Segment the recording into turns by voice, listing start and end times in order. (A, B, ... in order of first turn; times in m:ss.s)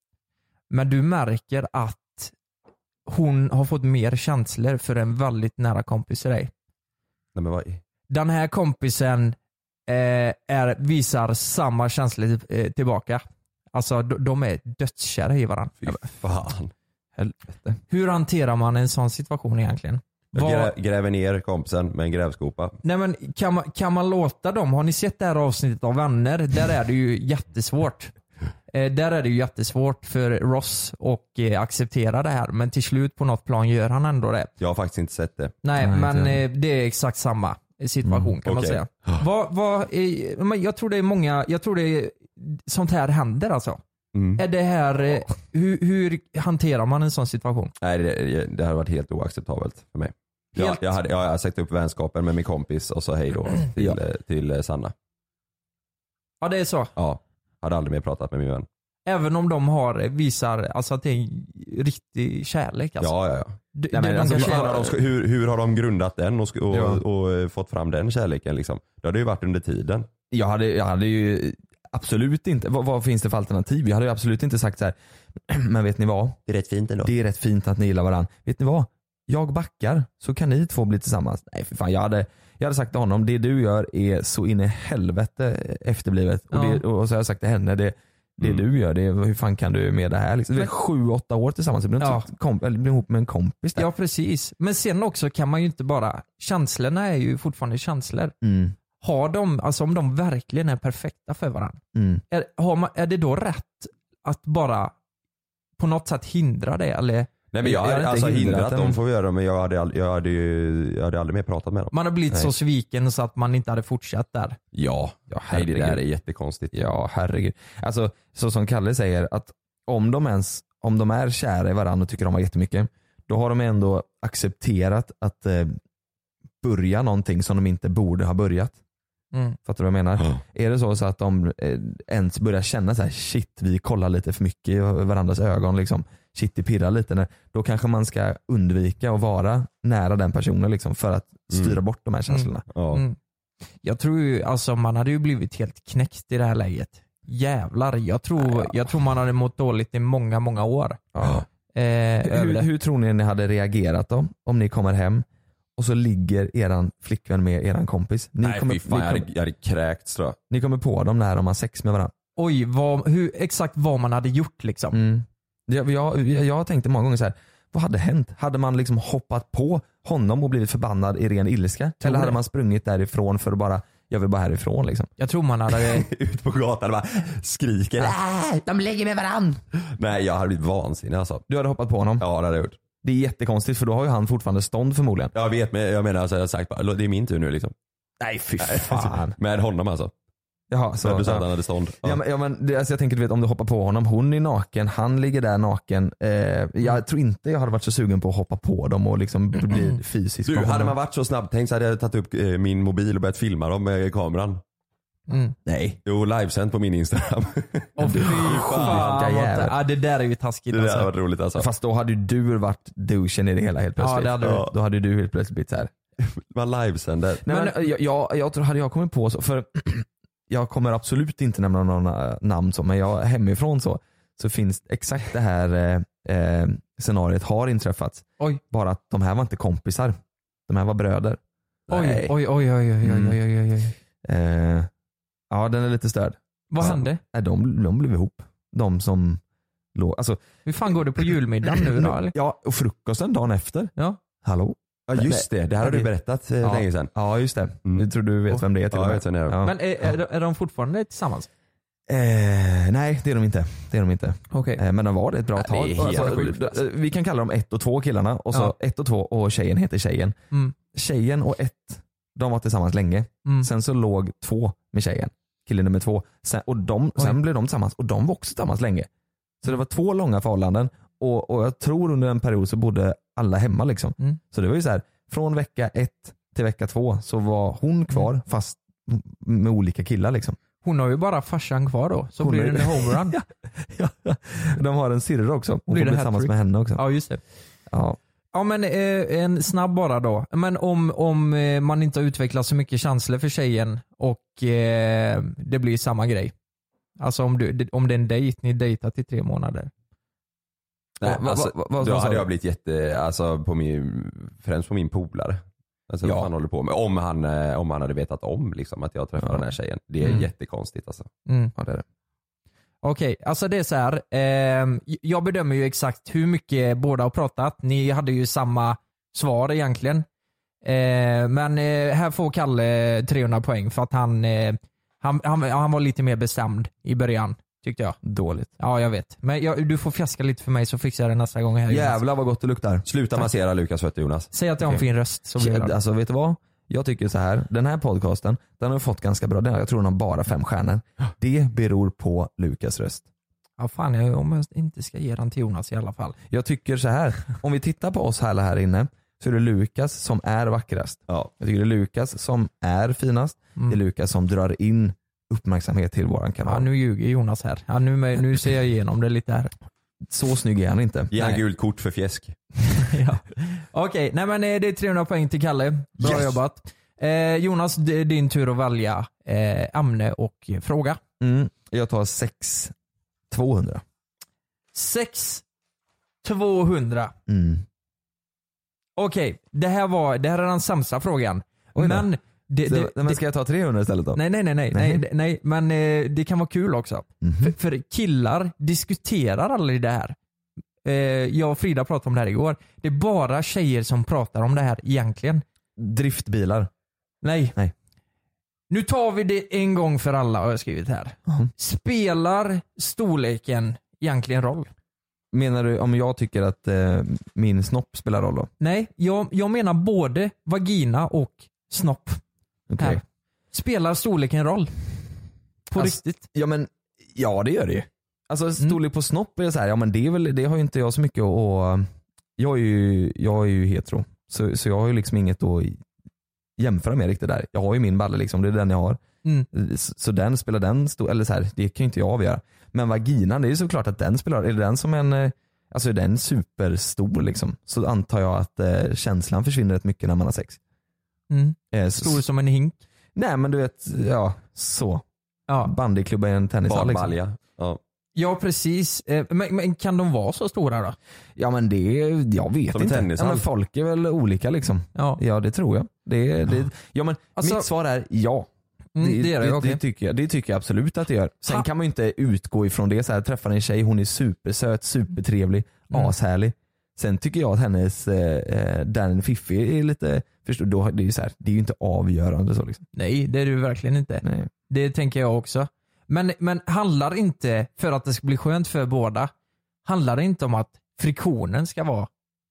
0:00.7-0:02.3 A
0:03.1-0:06.5 A
0:07.4-0:07.8 B
0:08.1-0:09.4 A
0:09.9-0:16.0 A
0:15.8-0:16.7 B
0:17.2-0:17.8 C
0:17.9-0:20.7 A
0:20.3-0:22.8 B
0:22.8-0:28.1 A
0:28.7-0:34.5 A
0:34.6-0:35.5 B
0:35.6-0:43.8 A
0:35.8-0:36.4 C
0:38.0-0:38.3 C
0:38.4-0:39.2 B
0:44.1-0:44.4 B
0:44.4-0:47.7 A
0:47.8-0:54.9 B
0:50.6-0:50.8 A
0:56.4-0:56.9 A
0:57.0-0:58.7 B
0:59.0-1:03.1 A
1:03.0-1:03.6 B
1:03.7-1:04.7 A
1:03.9-1:05.0 C
1:04.2-1:10.1 B
1:06.7-1:07.0 C
1:10.3-1:14.9 C
1:15.5-1:16.4 C
1:16.5-1:17.1 B
1:17.0-1:33.9 C
1:26.5-1:26.8 A
1:32.0-1:32.3 A
1:33.8-1:38.3 A
1:38.4-1:38.7 C
1:39.0-1:41.8 A
1:41.9-1:42.2 C
1:42.3-1:44.9 A
1:45.8-1:47.3 A
1:47.5-1:52.5 B
1:47.6-1:49.0 C
1:51.9-1:54.6 A
1:54.7-1:56.8 B
1:55.3-1:56.0 C
1:56.7-2:05.8 C
2:06.6-2:08.8 C
2:09.6-2:22.6 C
2:21.5-2:21.8 B
2:22.3-2:23.2 A
2:22.7-2:23.0 B
2:23.8-2:31.0 A
2:28.4-2:28.7 C
2:31.1-2:31.4 C
2:31.7-2:32.7 A
2:32.2-2:35.2 C
2:35.8-2:39.3 C
2:38.4-2:40.4 B
2:40.5-2:42.1 C
2:42.4-2:45.0 A
2:44.9-2:55.1 C
2:52.0-2:52.4 A
2:55.2-2:56.1 A
2:55.8-2:58.5 B
2:59.8-3:01.4 B
3:01.5-3:02.2 C
3:02.2-3:02.8 B
3:03.0-3:05.3 C
3:05.4-3:07.7 B
3:08.2-3:09.4 C
3:08.6-3:10.1 B
3:10.7-3:11.5 C
3:11.0-3:12.2 B
3:12.0-3:20.9 C
3:20.4-3:24.6 B
3:25.3-3:25.6 A
3:25.6-3:26.0 C
3:26.0-3:29.2 B
3:28.0-3:31.1 A
3:28.0-3:29.8 C
3:30.7-3:31.7 B
3:31.6-3:35.9 C
3:34.0-3:34.6 A
3:34.4-3:34.7 B
3:36.2-3:37.4 B
3:37.4-3:50.1 C
3:37.5-3:37.7 A
3:50.7-3:52.3 C
3:51.9-3:53.9 A
3:53.0-3:53.4 C
3:54.2-3:54.9 C
3:55.5-3:59.4 C
3:56.7-3:57.2 A
3:59.9-4:00.4 C
4:00.6-4:02.4 A
4:01.7-4:06.1 C
4:05.1-4:07.1 B
4:06.6-4:09.8 C
4:08.9-4:09.6 B
4:09.6-4:11.5 A
4:12.1-4:20.4 C
4:14.5-4:14.8 A
4:15.7-4:16.7 B
4:15.9-4:16.4 A
4:20.9-4:29.1 C
4:29.6-4:40.6 C
4:40.8-4:43.4 A
4:42.4-4:47.0 C
4:45.9-4:47.4 A
4:47.9-4:48.2 C
4:48.5-4:56.5 A
4:57.2-4:59.9 A
5:01.2-5:02.5 C
5:01.2-5:11.3 B
5:06.2-5:06.5 C
5:11.5-5:11.7 A
5:11.8-5:12.0 C
5:13.0-5:20.2 A
5:20.8-5:28.2 A
5:28.2-5:28.7 C
5:28.8-5:32.2 A
5:31.9-5:33.1 C
5:33.0-5:34.5 B
5:34.5-5:35.9 A
5:35.6-5:43.2 C
5:43.8-5:46.4 A
5:46.5-5:56.9 C
5:56.6-5:59.7 A
6:00.3-6:01.6 C
6:01.3-6:02.6 B
6:02.9-6:11.2 A
6:11.4-6:12.9 C
6:13.5-6:14.0 C
6:14.9-6:15.6 A
6:16.4-6:17.3 A
6:17.5-6:17.8 C
6:19.2-6:23.4 A
6:22.0-6:22.3 C
6:22.9-6:25.2 C
6:24.4-6:30.4 A
6:27.4-6:27.7 C
6:31.0-6:35.6 A
6:36.0-6:36.9 C
6:37.4-6:37.8 A
6:38.9-6:44.9 A
6:45.5-6:48.7 C
6:48.8-6:52.4 A
6:52.9-6:53.2 C
6:53.7-6:55.0 A
6:55.9-6:56.5 A
6:55.9-7:06.0 C
7:06.8-7:09.2 C
7:09.7-7:20.8 C
7:21.5-7:23.0 A
7:21.9-7:22.4 C
7:23.4-7:25.2 C
7:25.7-7:25.9 A
7:25.8-7:27.4 C
7:26.9-7:28.0 B
7:28.4-7:31.2 A
7:31.6-7:53.0 C
7:32.9-7:33.6 B
7:37.6-7:37.9 A
7:39.2-7:40.0 A
7:53.1-7:59.5 A
7:54.4-7:54.7 C
8:00.0-8:02.3 A